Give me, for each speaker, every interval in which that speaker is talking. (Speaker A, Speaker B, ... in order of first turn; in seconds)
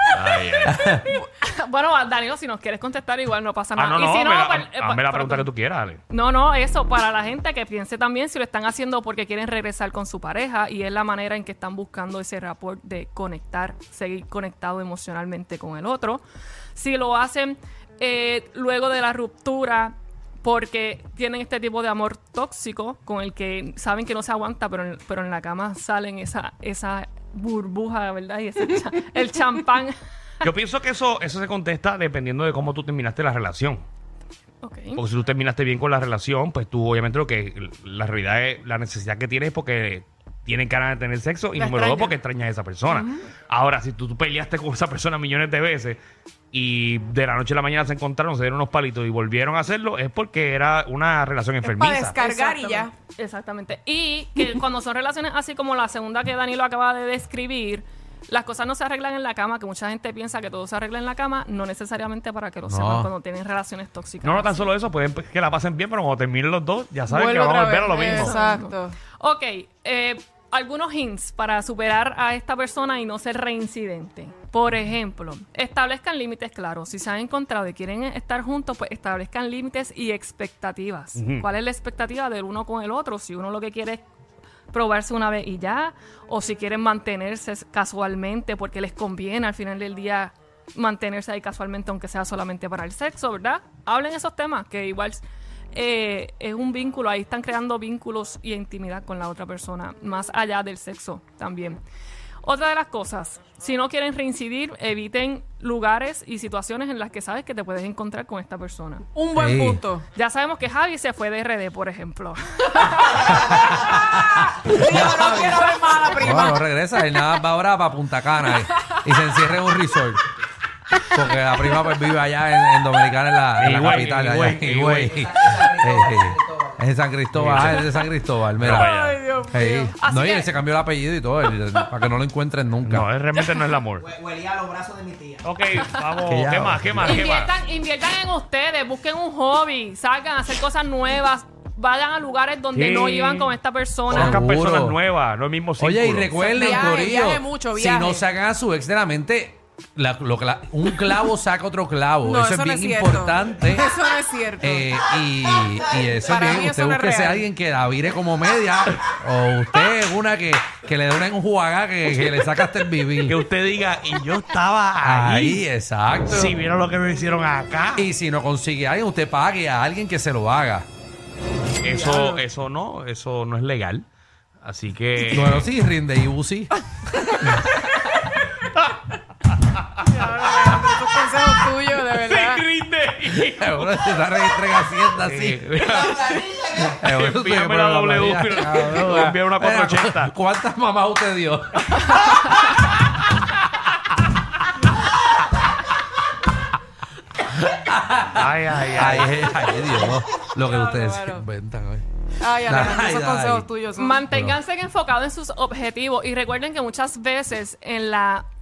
Speaker A: 0.1-0.9, 3.8-6.0, 30.4-33.8, 35.0-46.0, 46.5-52.3, 64.2-68.4, 81.2-81.5, 123.6-125.2, 127.3-128.0, 128.6-129.2, 132.9-134.1, 135.4-137.5, 142.7-143.5, 144.1-146.4, 163.2-165.6, 166.3-168.1, 171.8-174.1, 174.6-175.7, 177.5-177.8, 178.8-179.0, 181.9-183.9, 185.2-190.3, 198.3-199.3
Speaker B: 0.7-1.1, 62.7-63.1, 109.3-109.8, 113.4-120.2, 121.1-128.9, 129.5-133.1, 136.2-137.2, 144.1-145.0, 145.8-153.9, 154.6-163.4, 165.0-166.5, 168.0-170.9, 175.2-176.7, 183.4-185.6, 186.8-192.1, 197.5-202.1, 202.6-203.7
Speaker C: 0.9-5.5, 6.1-16.2, 16.8-29.9, 34.6-35.0, 52.2-64.7, 68.1-84.0, 84.7-101.8, 102.4-109.1, 110.1-113.5, 130.0-130.5, 137.0-144.4, 146.4-146.9, 204.0-208.4
Speaker D: 41.6-42.2, 51.6-52.9, 67.1-69.0, 109.2-110.0, 114.6-116.6, 128.7-129.9, 146.4-148.2, 152.2-155.0, 156.1-157.5, 171.9-172.4, 180.1-182.6, 200.6-201.4, 202.4-204.2
Speaker E: 125.4-126.5, 134.2-135.4